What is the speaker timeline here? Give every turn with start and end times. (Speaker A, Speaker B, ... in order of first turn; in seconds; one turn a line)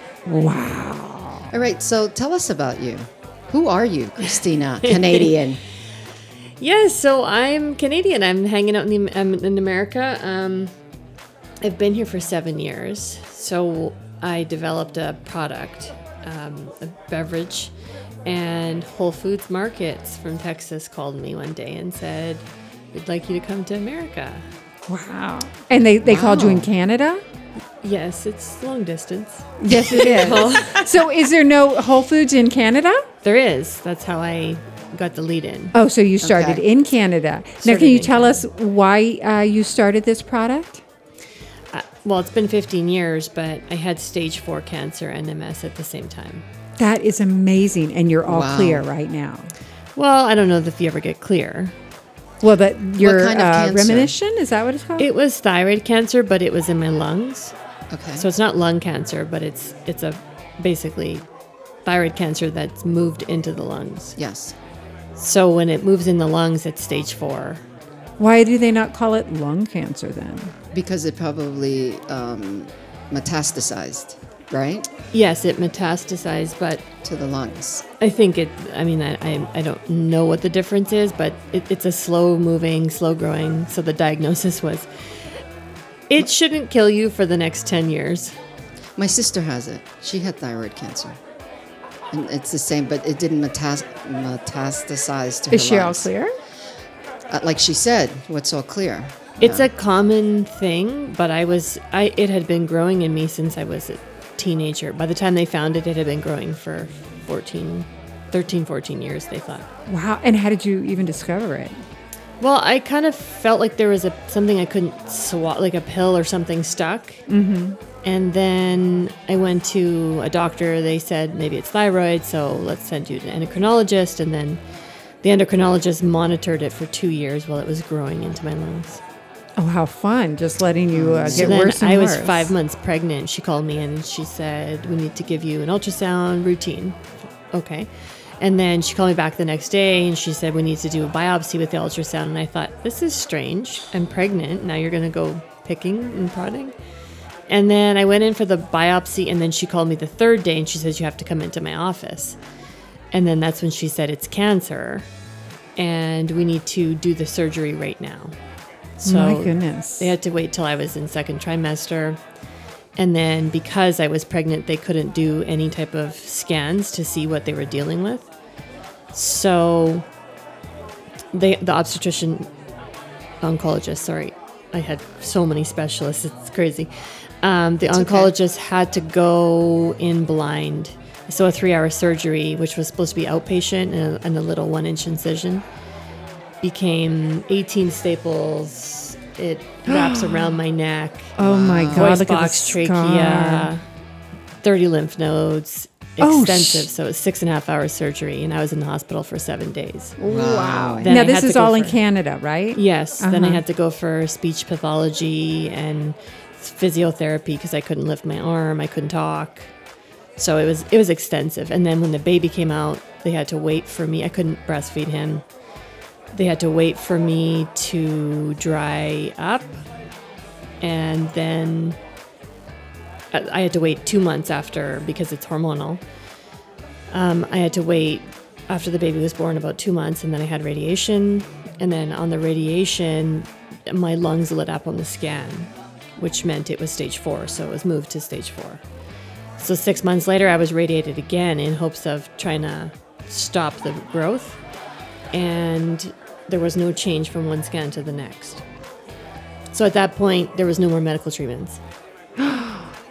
Speaker A: 0.3-1.5
Speaker B: 1.5-5.6
Speaker C: 4.8-5.3
Speaker C: 6.6-10.7
Speaker C: 11.6-17.7
Speaker C: 18.2-24.5
Speaker A: 24.9-27.2
Speaker B: 26.1-26.7
Speaker C: 27.8-30.9
Speaker A: 29.6-33.0
Speaker B: 29.7-30.7
Speaker C: 33.2-35.8
Speaker A: 35.7-40.8
Speaker B: 36.2-36.6
Speaker C: 37.6-38.4
Speaker C: 41.7-46.5
Speaker A: 46.8-49.5
Speaker B: 48.3-48.9
Speaker C: 50.0-51.8
Speaker A: 52.4-55.1
Speaker B: 53.0-54.1
Speaker C: 55.0-57.5
Speaker B: 57.9-58.2
Speaker C: 58.2-61.2
Speaker C: 61.9-64.2
Speaker B: 64.2-64.5
Speaker C: 65.2-67.6
Speaker A: 68.2-70.5
Speaker B: 70.7-74.9
Speaker C: 75.1-76.8
Speaker B: 77.0-77.8
Speaker C: 78.0-84.9
Speaker C: 86.1-88.3
Speaker B: 89.0-91.2
Speaker B: 92.1-96.1
Speaker A: 95.5-96.3
Speaker B: 97.3-99.7
Speaker C: 99.4-109.7
Speaker A: 109.9-111.8
Speaker C: 112.4-117.2
Speaker A: 117.3-117.8
Speaker C: 118.0-124.6
Speaker C: 125.2-129.0
Speaker A: 129.6-132.5
Speaker B: 130.9-131.6
Speaker C: 131.3-137.9
Speaker C: 138.4-146.8
Speaker C: 147.5-152.4
Speaker C: 153.1-155.1
Speaker C: 155.8-158.3
Speaker C: 159.0-162.2
Speaker A: 159.0-160.1
Speaker C: 163.0-168.3
Speaker C: 169.1-170.1
Speaker C: 171.3-172.5
Speaker C: 173.4-176.9
Speaker C: 177.4-185.7
Speaker B: 177.9-178.3
Speaker C: 186.6-191.4
Speaker A: 189.9-190.6
Speaker A: 191.4-193.7
Speaker B: 191.4-192.2
Speaker C: 192.0-193.8
Speaker C: 194.6-200.2
Speaker A: 196.2-196.9
Speaker A: 200.2-203.6
Speaker B: 200.3-201.1
Speaker C: 201.0-202.0
Speaker C: 202.8-209.7
Speaker C: 210.4-215.4
Speaker C: 216.3-219.8
Speaker C: 220.8-222.0
Speaker C: 223.3-226.0
Speaker C: 227.1-238.8
Speaker C: 239.6-244.6
Speaker C: 245.3-248.6
Speaker C: 249.7-251.8
Speaker A: 252.4-252.9